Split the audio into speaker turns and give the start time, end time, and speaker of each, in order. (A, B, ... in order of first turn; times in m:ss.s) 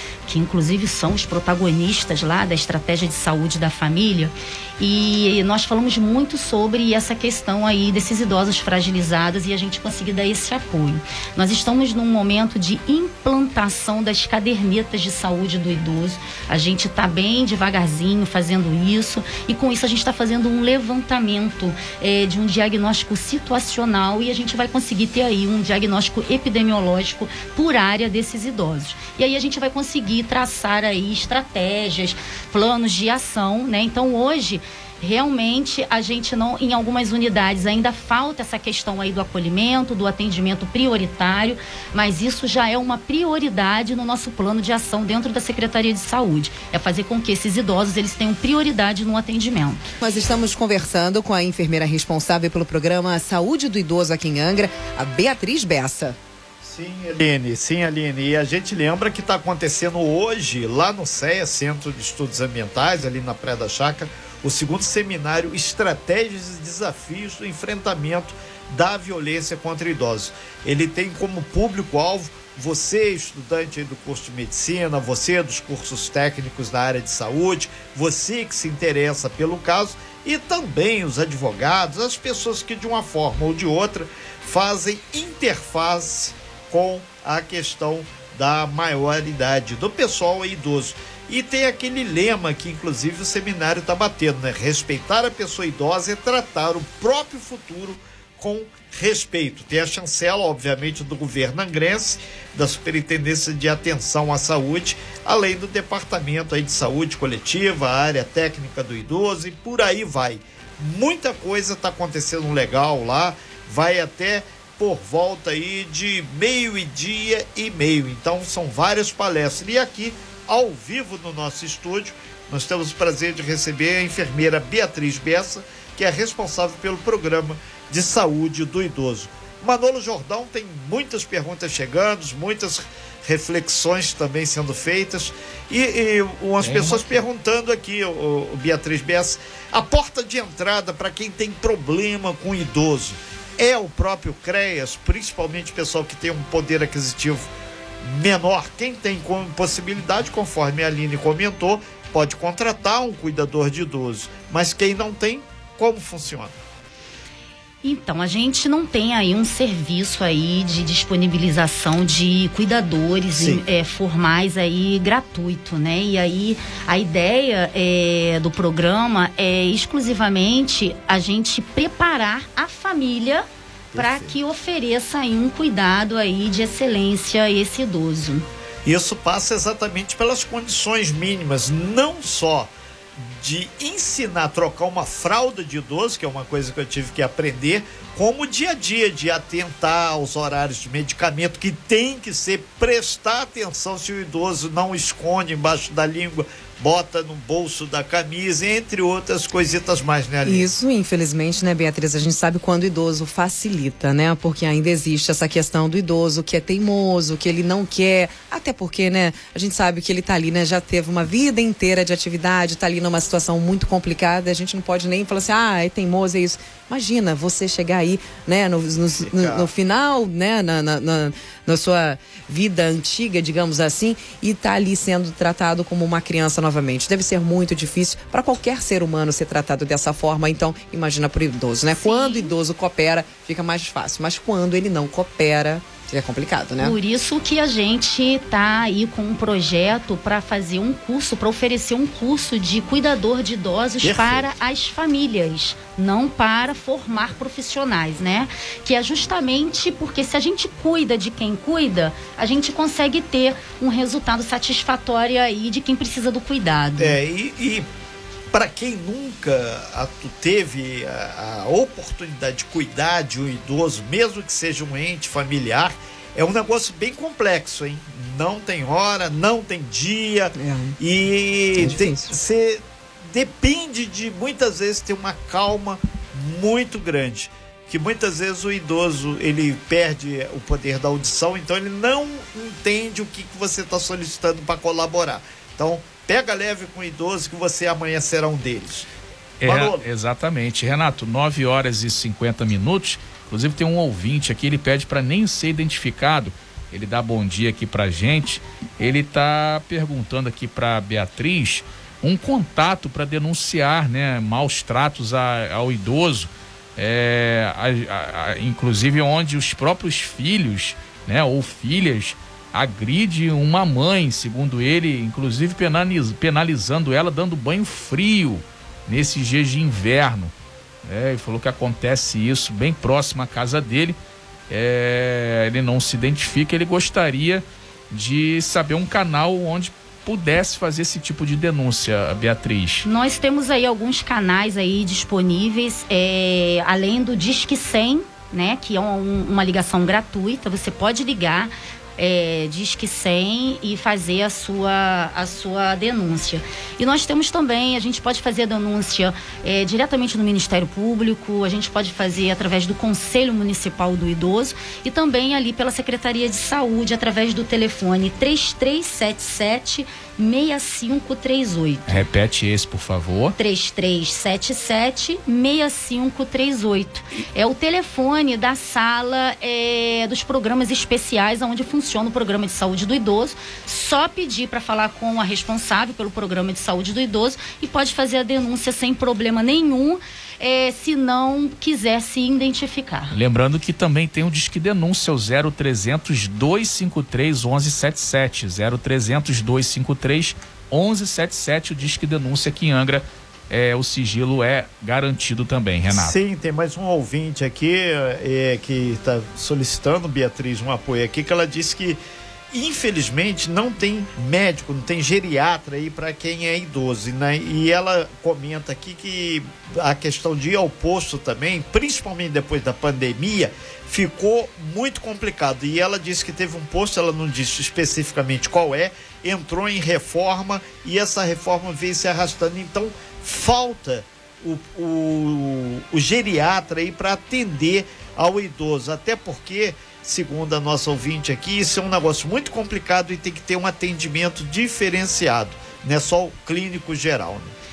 0:00.3-0:49.8 A
0:50.0-0:56.2 B
0:56.6-2:27.4 C
2:16.6-2:17.2 D
2:28.0-2:36.6 C
2:37.8-2:58.5 A
2:43.4-2:43.6 C
2:53.9-2:54.3 C
2:58.9-3:20.7 C
3:20.4-3:57.0 B
3:39.2-3:39.7 C
3:52.0-3:52.5 A
3:56.8-4:17.2 A
4:04.0-4:04.5 C
4:17.0-4:17.9 C
4:18.5-4:49.1 C
4:30.6-4:31.0 B
4:31.7-4:32.3 B
4:49.6-5:20.5 D
4:49.6-4:50.0 C
5:21.0-5:24.2 D
5:24.7-5:33.1 D
5:33.0-6:02.2 A
6:02.1-6:03.6 D
6:03.6-6:23.4 A
6:23.3-6:36.4 D
6:36.1-6:42.2 C
6:42.7-7:17.7 C